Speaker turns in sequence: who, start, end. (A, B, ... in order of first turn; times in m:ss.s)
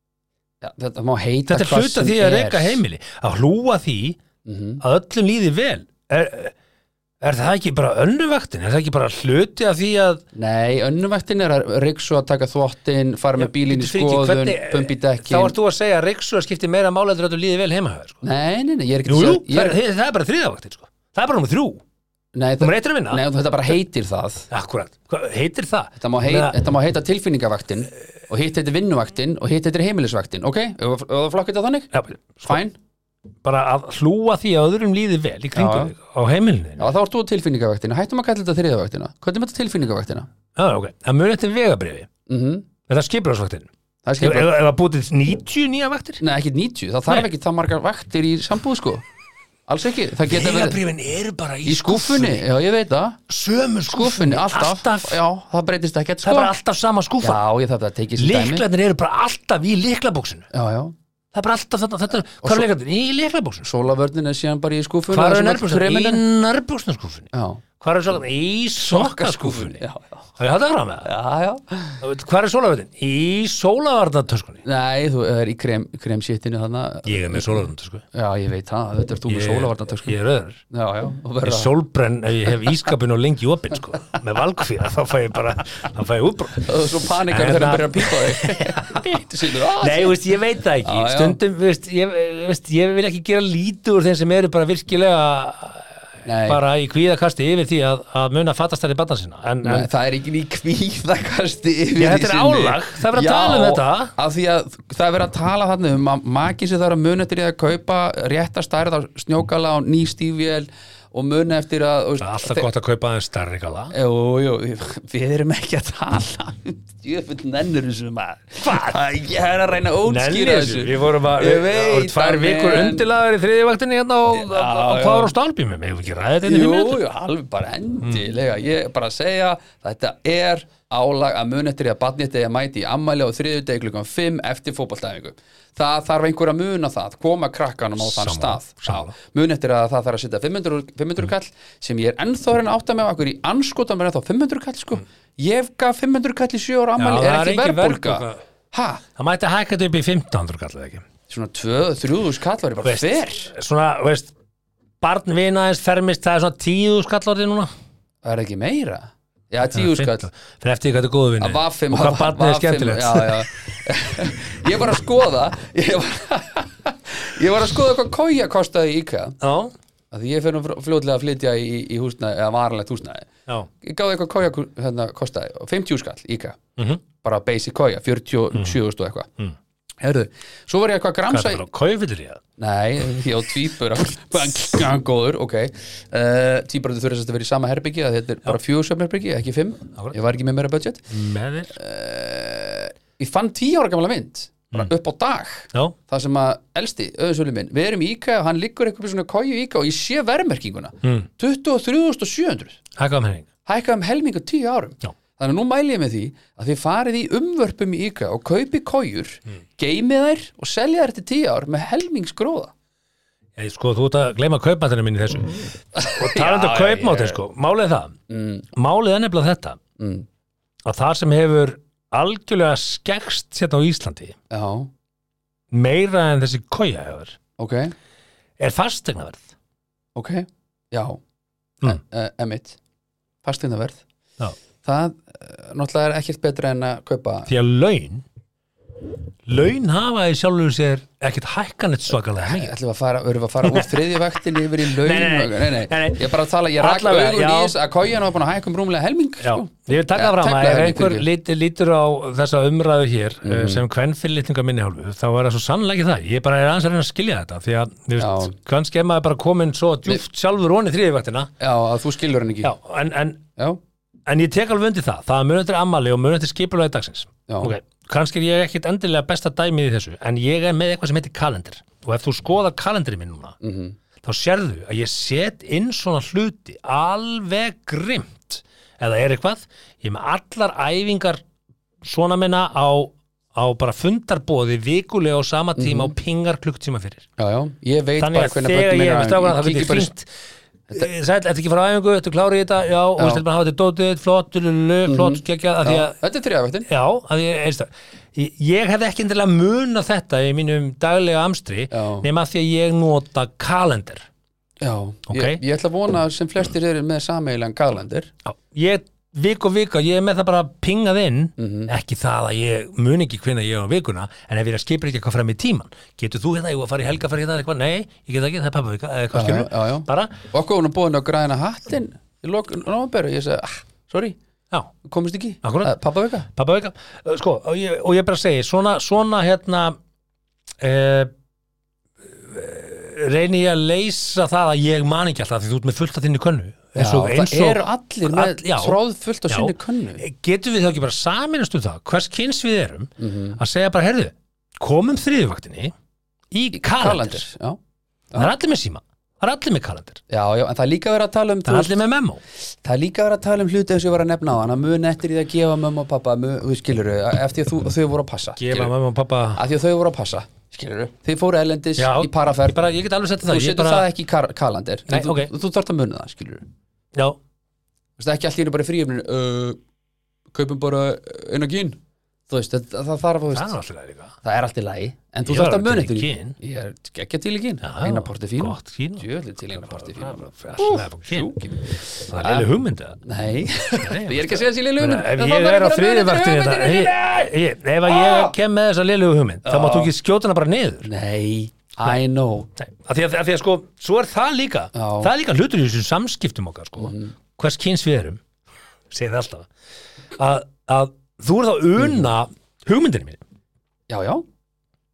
0:00.6-0:02.8 A
0:01.5-0:04.2 B
0:04.4-0:04.8 A
0:04.8-0:06.5 B
0:07.2-0:10.2 B
0:10.3-0:15.5 A
0:13.4-0:18.2 B
0:18.2-0:19.8 A
0:19.0-0:21.8 B
0:22.3-0:24.5 A
0:22.6-0:23.2 B
0:24.5-0:26.5 B
0:26.0-0:31.9 A
0:31.9-0:32.6 B
0:32.4-0:32.7 A
0:33.4-0:36.9 B
0:35.5-0:35.9 A
0:36.8-0:40.3 A
0:40.6-0:42.1 B
0:42.3-0:42.7 A
0:42.9-0:43.7 B
0:44.0-0:44.5 A
0:44.2-0:46.2 B
0:46.2-0:49.0 A
0:49.7-0:50.8 A
0:50.3-0:52.4 B
0:51.6-0:53.2 A
0:53.3-0:55.2 B
0:53.9-0:56.5 A
0:56.2-0:57.4 B
0:57.2-0:58.6 A
0:58.2-1:00.5 B
1:00.5-1:00.9 A
1:01.3-1:03.7 B
1:02.4-1:02.7 A
1:03.6-1:06.2 A
1:05.1-1:09.8 B
1:07.3-1:07.6 A
1:08.8-1:10.2 A
1:10.4-1:11.1 B
1:11.0-1:12.0 A
1:12.0-1:14.6 B
1:14.6-1:20.1 A
1:17.0-1:18.0 B
1:19.3-1:20.6 B
1:20.7-1:21.7 A
1:21.4-1:39.9 B
1:26.6-1:30.2 A
1:30.8-1:31.4 A
1:36.2-1:36.6 A
1:39.6-1:52.7 A
1:42.0-1:44.1 B
1:52.2-1:53.9 B
1:53.9-2:03.0 A
1:58.6-1:59.0 B
2:00.0-2:07.0 B
2:04.3-2:05.3 A
2:06.4-2:29.0 A
2:18.0-2:19.1 B
2:27.0-2:28.4 B
2:29.2-2:31.0 B
2:31.3-2:33.5 A
2:32.8-2:34.3 B
2:35.0-2:37.7 B
2:38.2-2:40.3 A
2:39.7-2:43.5 B
2:41.4-2:49.4 A
2:49.4-2:49.7 B
2:50.1-2:53.3 A
2:53.8-2:56.6 A
2:57.2-2:59.3 A
3:00.0-3:01.6 A
3:01.3-3:02.4 B
3:02.6-3:11.1 A
3:11.1-3:11.7 B
3:11.7-3:22.8 A
3:23.0-3:23.5 B
3:23.6-3:32.7 A
3:33.6-3:38.1 B
3:35.9-3:37.4 A
3:38.3-3:38.6 A
3:38.7-3:39.8 B
3:40.0-3:40.2 A
3:40.8-3:44.4 B
3:44.5-3:44.9 A
3:45.7-3:47.4 B
3:47.6-3:47.9 A
3:48.6-3:49.4 B
3:50.2-3:51.2 A
3:51.8-3:52.8 A
3:53.4-3:54.0 A
3:54.8-3:57.5 A
3:57.5-3:58.2 B
3:59.5-4:02.7 B
4:02.4-4:11.2 A
4:03.6-4:07.7 B
4:09.4-4:21.5 B
4:13.4-4:13.8 A
4:18.2-4:18.5 A
4:21.6-4:22.7 A
4:22.6-4:23.4 B
4:24.2-4:33.6 B
4:27.5-4:27.7 A
4:33.6-4:34.0 A
4:34.2-4:41.4 B
4:42.0-4:47.3 B
4:45.8-4:46.1 A
4:47.4-4:50.1 A
4:48.2-4:50.3 B
4:50.9-4:56.2 B
4:53.2-4:53.4 A
4:55.0-4:56.9 A
4:56.9-5:04.3 B
5:01.9-5:02.2 A
5:04.8-5:08.3 A
5:05.3-5:05.6 B
5:08.4-5:20.3 B
5:11.6-5:11.9 A
5:19.3-5:24.4 A
5:25.0-5:26.5 A
5:25.6-5:25.9 B
5:26.5-5:30.0 B
5:30.8-5:31.3 B
5:32.3-5:45.9 B
5:37.0-5:40.2 A
5:43.2-5:43.6 A
5:46.5-5:47.4 B
5:46.8-5:47.8 A
5:48.4-5:50.2 B
5:50.3-5:52.0 A
5:51.7-5:52.4 B
5:52.8-5:58.9 A
5:58.6-5:59.6 B
5:59.6-6:02.8 A
6:02.0-6:04.1 B
6:03.4-6:06.6 A
6:05.1-6:05.5 B
6:08.2-6:09.8 A
6:10.5-6:13.7 A
6:13.5-6:14.3 B
6:14.4-6:22.7 A
6:15.4-6:16.5 B
6:17.8-6:21.5 B
6:22.3-6:23.2 B
6:23.2-6:27.3 A
6:23.9-6:31.1 B
6:28.0-6:28.5 A
6:29.6-6:30.1 A
6:31.0-6:32.7 A
6:32.8-6:38.4 B
6:34.9-6:35.3 A
6:37.0-6:37.3 A
6:39.1-6:39.7 B
6:40.4-6:43.4 B
6:42.0-6:42.2 A
6:44.1-6:44.4 A